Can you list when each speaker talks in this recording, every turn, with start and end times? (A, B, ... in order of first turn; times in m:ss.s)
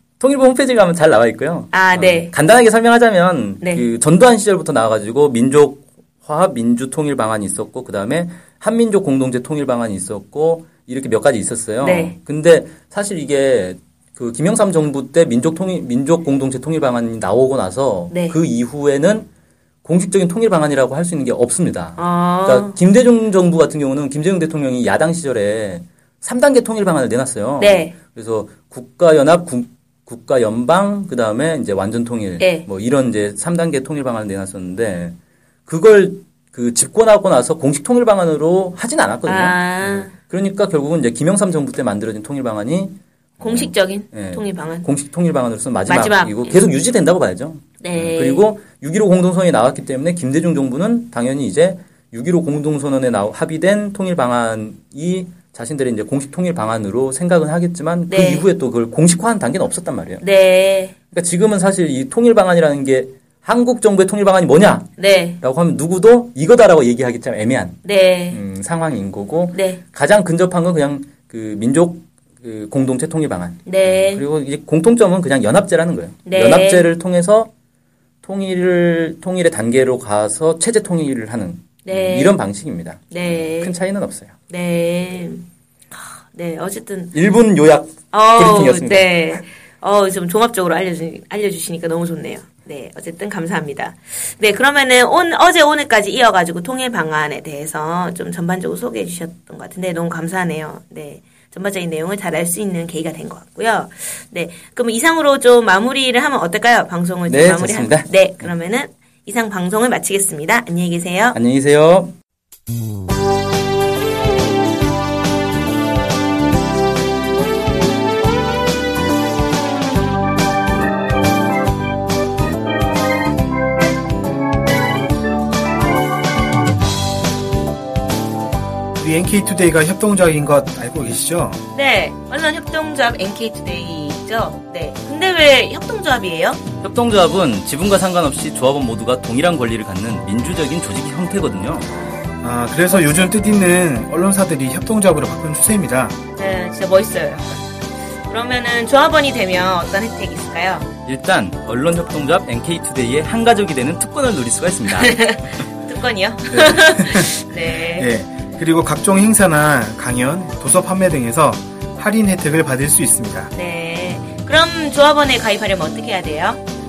0:00.2-0:19.3 A
0:01.7-0:02.3 B
0:11.8-0:12.2 B
0:18.1-0:18.4 B
0:19.8-1:00.2 A
0:22.0-0:22.8 B
0:27.6-0:27.9 B
0:32.4-0:32.6 B
0:39.3-0:40.1 B
0:43.4-0:44.9 B
0:45.9-0:46.6 B
0:47.8-0:48.5 B
0:58.1-0:58.4 B
1:00.2-1:00.9 B
1:01.1-1:07.8 A
1:05.0-1:05.4 B
1:07.8-1:08.4 B
1:08.3-1:17.5 A
1:09.5-1:09.8 B
1:13.6-1:14.2 B
1:16.3-1:16.9 B
1:18.2-1:24.4 A
1:21.8-1:22.4 B
1:23.1-1:23.8 B
1:24.5-1:27.1 B
1:27.1-1:29.2 A
1:28.1-1:51.4 B
1:47.3-1:48.5 A
1:51.3-1:52.1 A
2:09.0-2:11.6 C
2:11.7-2:16.6 B
2:16.8-2:21.9 A
2:21.9-2:22.2 B
2:22.4-2:26.2 C
2:26.4-2:27.6 B
2:28.3-2:30.9 B
2:31.1-2:35.4 A
2:35.0-2:38.1 B
2:36.5-2:37.4 C
2:38.0-2:43.5 C
2:43.5-2:46.6 B